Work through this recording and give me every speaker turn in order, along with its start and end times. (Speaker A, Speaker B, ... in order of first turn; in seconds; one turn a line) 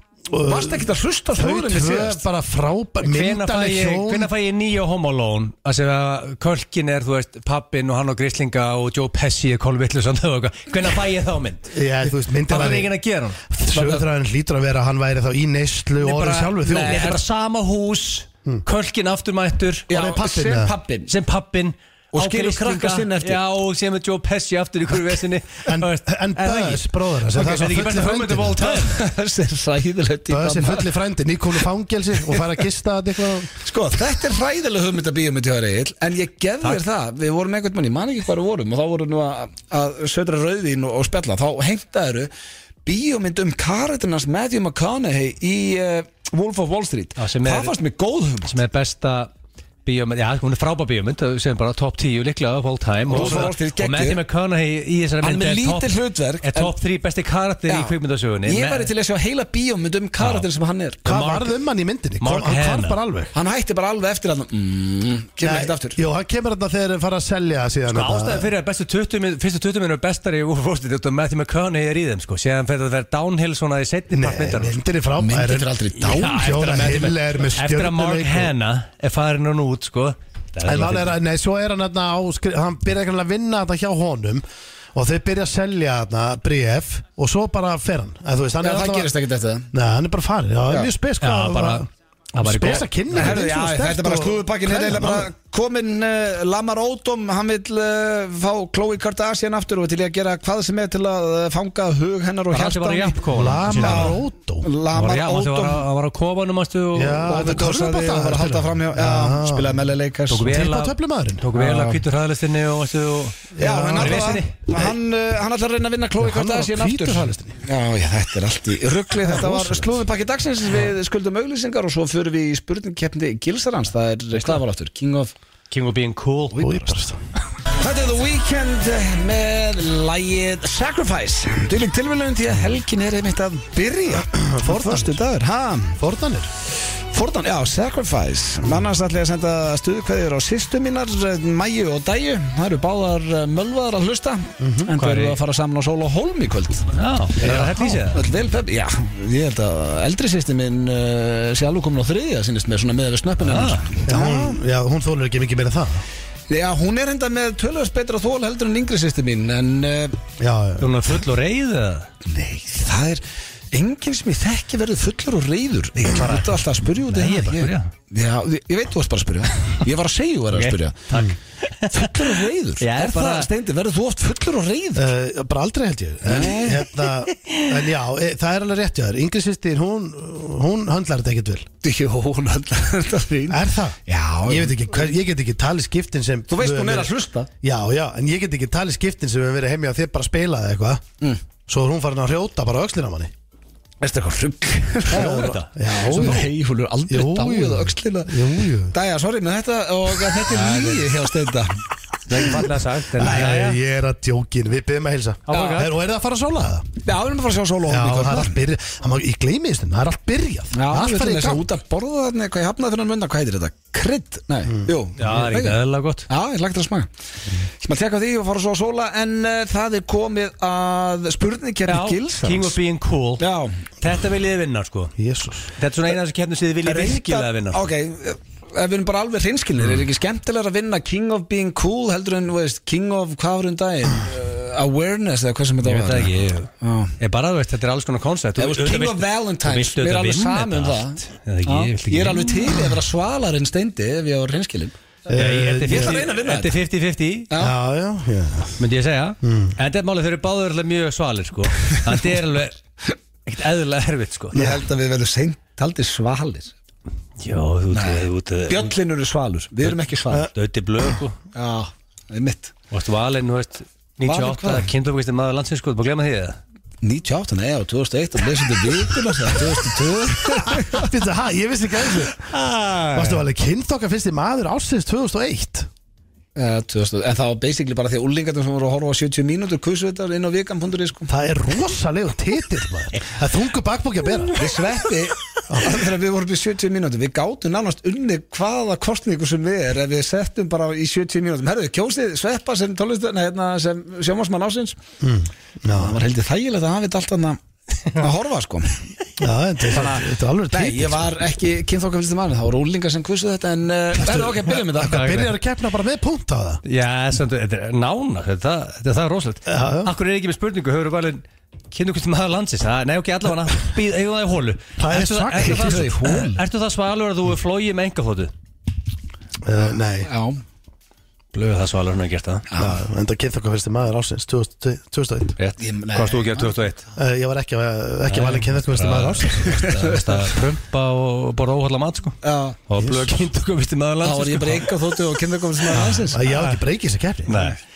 Speaker A: 0.3-4.3
Speaker B: 0.5-2.2
Speaker C: 3.0-11.7
Speaker A: 11.7-12.9
Speaker C: 12.5-13.4
Speaker A: 13.5-17.2
Speaker C: 16.1-19.9
Speaker B: 16.2-17.2
Speaker B: 19.9-21.1
Speaker A: 19.9-20.7
Speaker C: 21.1-29.0
Speaker B: 22.1-23.4
Speaker A: 25.7-28.8
Speaker B: 28.7-30.9
Speaker A: 30.3-33.5
Speaker B: 33.6-42.3
Speaker B: 42.9-48.6
Speaker C: 47.2-47.8
Speaker C: 48.5-49.3
Speaker C: 49.9-58.9
Speaker A: 53.1-53.5
Speaker B: 53.1-54.2
Speaker B: 55.2-56.7
Speaker B: 57.7-61.0
Speaker C: 60.2-60.5
Speaker A: 61.0-63.3
Speaker C: 61.1-61.5
Speaker C: 62.2-63.0
Speaker B: 63.3-66.0
Speaker A: 65.4-68.5
Speaker C: 67.9-74.8
Speaker A: 74.1-78.5
Speaker B: 75.2-76.5
Speaker C: 76.0-81.2
Speaker A: 80.7-84.4
Speaker A: 85.0-89.1
Speaker B: 88.6-89.7
Speaker A: 89.7-91.9
Speaker C: 91.2-93.4
Speaker A: 92.4-95.3
Speaker B: 93.1-103.2
Speaker C: 102.5-104.2
Speaker A: 103.3-104.7
Speaker B: 103.8-105.9
Speaker C: 104.9-107.5
Speaker A: 106.9-109.8
Speaker B: 107.3-110.5
Speaker C: 110.3-114.6
Speaker A: 110.4-111.5
Speaker B: 111.6-112.0
Speaker A: 113.5-114.9
Speaker B: 113.6-125.3
Speaker A: 116.2-117.6
Speaker A: 119.2-120.0
Speaker C: 125.7-126.8
Speaker A: 126.6-127.2
Speaker B: 127.8-136.0
Speaker A: 134.1-135.2
Speaker A: 136.0-136.5
Speaker B: 137.1-146.9
Speaker A: 144.6-144.9
Speaker C: 145.0-145.4
Speaker C: 146.9-148.2
Speaker A: 147.4-148.0
Speaker B: 148.1-154.6
Speaker C: 153.4-153.9
Speaker A: 154.1-156.0
Speaker B: 156.5-160.2
Speaker A: 160.4-160.9
Speaker C: 160.8-162.1
Speaker B: 162.2-171.1
Speaker C: 166.1-167.9
Speaker C: 170.5-173.5
Speaker B: 171.9-175.1
Speaker A: 175.0-181.7
Speaker B: 176.3-176.9
Speaker B: 181.8-185.1
Speaker A: 183.5-187.1
Speaker B: 186.5-187.5
Speaker A: 187.6-191.0
Speaker A: 191.7-193.3
Speaker B: 194.0-201.8
Speaker C: 195.1-196.4
Speaker A: 195.1-196.5
Speaker A: 197.1-198.9
Speaker C: 200.5-201.1
Speaker C: 202.3-203.8
Speaker A: 203.2-206.9
Speaker B: 203.2-203.5
Speaker C: 205.5-205.9
Speaker B: 205.5-205.8
Speaker B: 207.1-208.6
Speaker A: 207.9-211.7
Speaker B: 210.7-217.1
Speaker C: 215.2-216.3
Speaker B: 217.8-222.8
Speaker C: 221.9-223.4
Speaker B: 223.4-223.8
Speaker C: 224.0-225.1
Speaker A: 225.2-225.7
Speaker C: 225.8-227.8
Speaker B: 226.8-237.2
Speaker C: 235.8-236.7
Speaker C: 237.2-242.7
Speaker B: 238.6-245.0
Speaker A: 245.3-246.2
Speaker C: 245.3-247.5
Speaker B: 245.9-246.8
Speaker B: 247.5-247.8
Speaker A: 247.6-248.8
Speaker C: 248.8-252.8
Speaker A: 249.4-249.8
Speaker C: 253.5-254.6
Speaker B: 254.5-256.7
Speaker C: 257.4-258.9
Speaker B: 257.9-260.5
Speaker C: 259.8-261.4
Speaker B: 261.5-262.7
Speaker C: 262.9-266.6
Speaker B: 264.2-264.9
Speaker B: 267.0-271.1
Speaker A: 270.7-272.5
Speaker C: 272.5-273.4
Speaker A: 273.1-275.9
Speaker B: 276.6-281.3
Speaker A: 281.3-284.7
Speaker B: 284.6-295.0
Speaker A: 285.7-286.0
Speaker A: 295.2-296.2
Speaker B: 295.9-297.6
Speaker B: 298.1-299.1
Speaker A: 299.4-301.2
Speaker B: 299.9-305.4
Speaker A: 304.3-306.8
Speaker C: 305.0-305.5
Speaker C: 306.9-318.5
Speaker A: 309.7-310.1
Speaker A: 315.0-316.1
Speaker B: 315.6-316.6
Speaker A: 319.6-320.3
Speaker B: 320.2-320.6
Speaker C: 321.5-322.7
Speaker B: 322.7-323.0
Speaker A: 322.8-325.5
Speaker C: 325.6-327.0
Speaker B: 325.8-326.7
Speaker A: 327.2-329.7
Speaker C: 328.3-332.4
Speaker B: 329.7-330.5
Speaker B: 332.4-332.8
Speaker C: 332.9-334.9
Speaker A: 333.0-333.3
Speaker B: 334.2-336.4
Speaker C: 335.9-336.8
Speaker A: 336.3-337.7
Speaker C: 337.5-337.8